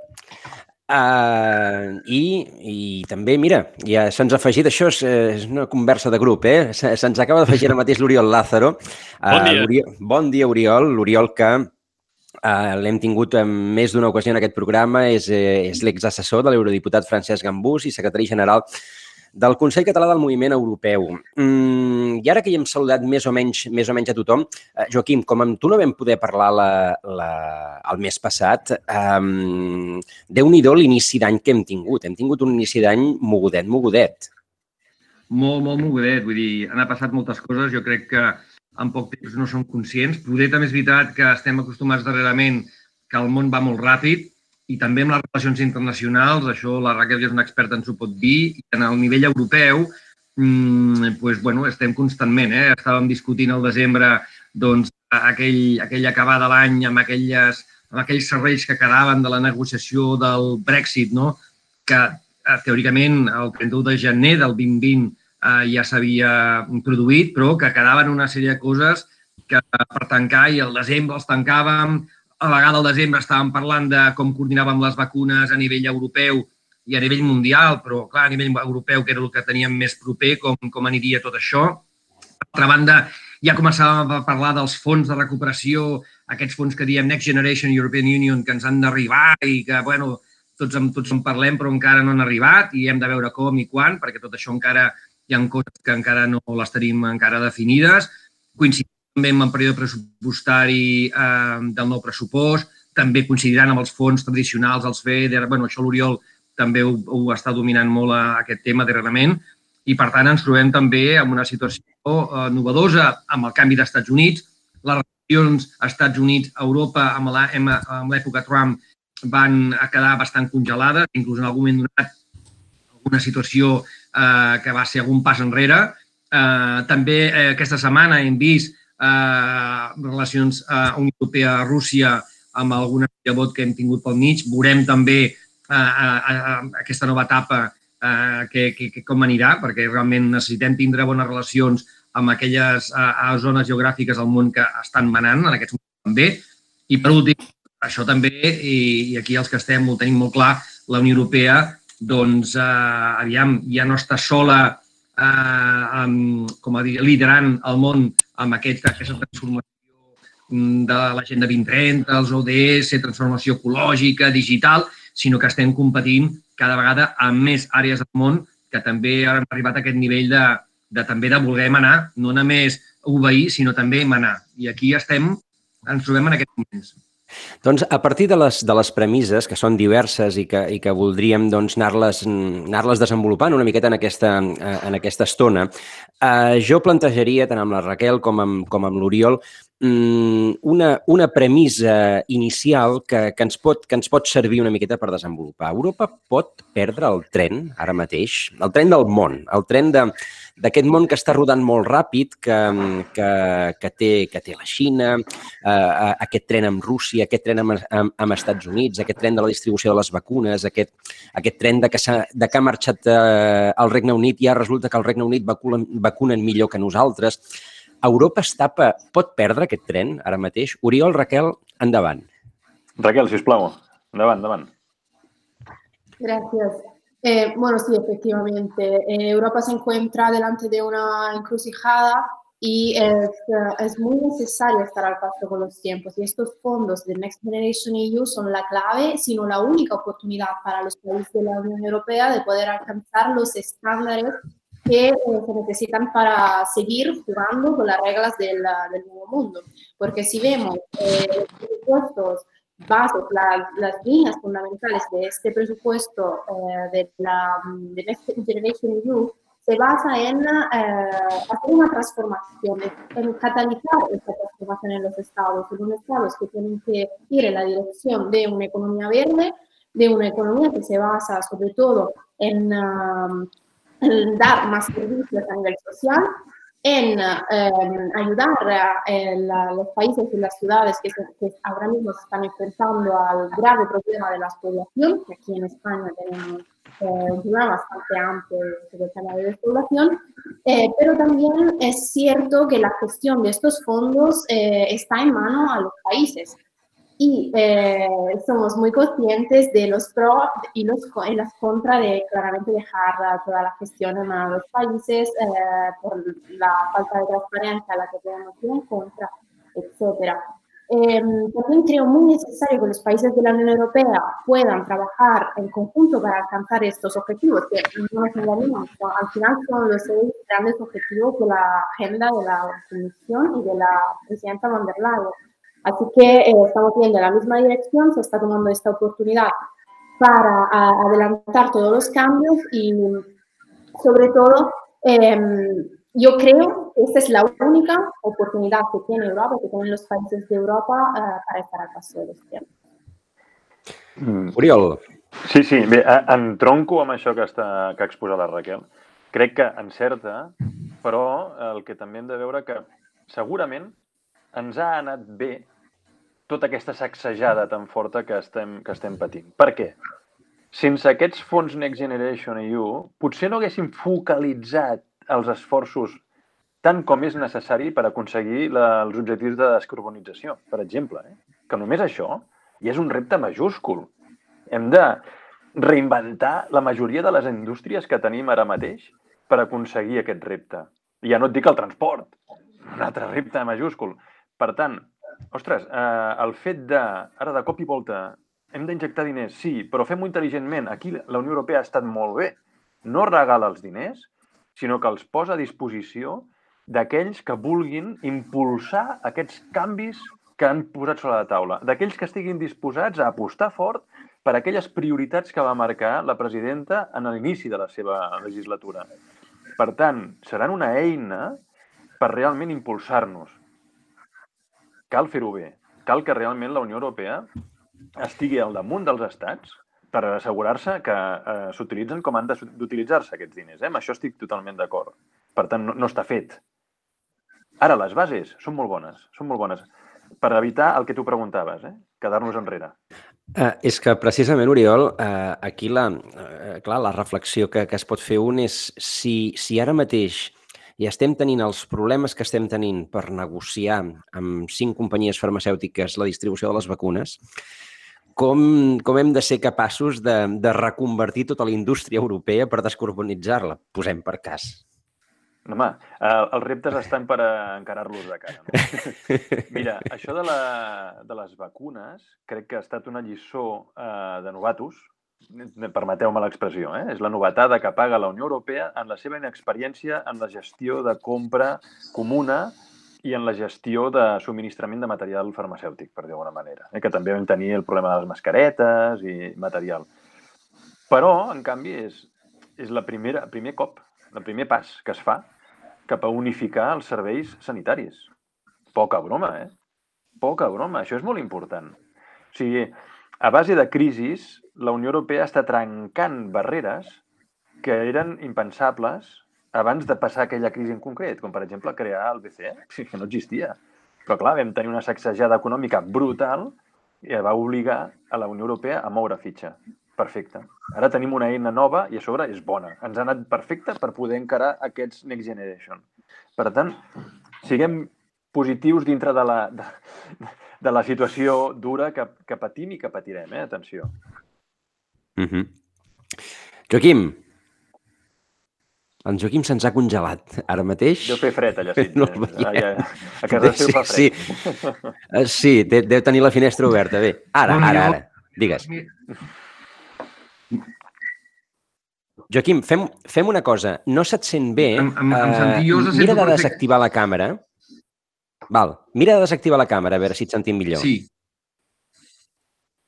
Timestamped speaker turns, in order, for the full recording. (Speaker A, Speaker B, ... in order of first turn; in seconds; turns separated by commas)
Speaker A: 0.9-11.7, Speaker B: 9.3-9.7, Speaker A: 12.4-18.6, Speaker A: 19.3-34.3, Speaker C: 35.3-81.8, Speaker C: 82.5-122.1, Speaker C: 123.0-159.7, Speaker C: 160.5-176.9, Speaker A: 177.6-185.7, Speaker A: 186.2-217.4, Speaker A: 218.0-222.2, Speaker B: 223.0-224.7, Speaker D: 226.2-273.5, Speaker D: 274.0-296.6, Speaker D: 297.2-329.6, Speaker D: 330.2-333.3, Speaker D: 334.0-342.6, Speaker B: 344.2-344.6, Speaker A: 344.5-345.0, Speaker B: 345.4-353.9, Speaker B: 354.5-355.7, Speaker B: 356.5-359.9, Speaker B: 360.7-366.2, Speaker B: 366.8-374.1, Speaker B: 374.7-375.2, Speaker B: 375.7-382.3, Speaker B: 382.9-409.1, Speaker B: 409.8-411.6, Speaker B: 412.2-413.6, Speaker B: 415.1-417.5, Speaker B: 418.2-426.6, Speaker B: 427.8-429.9, Speaker B: 430.4-432.9, Speaker A: 433.5-447.4, Speaker A: 448.4-454.8, Speaker B: 455.6-459.1, Speaker B: 459.7-480.1, Speaker B: 481.1-485.5, Speaker B: 486.1-488.3, Speaker B: 488.9-489.7, Speaker B: 490.4-491.9, Speaker B: 492.5-497.2, Speaker B: 497.8-516.0, Speaker B: 516.6-517.0, Speaker B: 517.6-524.1, Speaker A: 525.4-525.7, Speaker A: 526.9-527.4, Speaker A: 529.2-531.5, Speaker B: 531.2-535.1, Speaker A: 532.0-534.5, Speaker A: 535.3-538.9, Speaker C: 537.6-539.1, Speaker A: 542.5-547.6, Speaker C: 544.9-546.8, Speaker A: 548.7-551.1, Speaker C: 551.0-551.2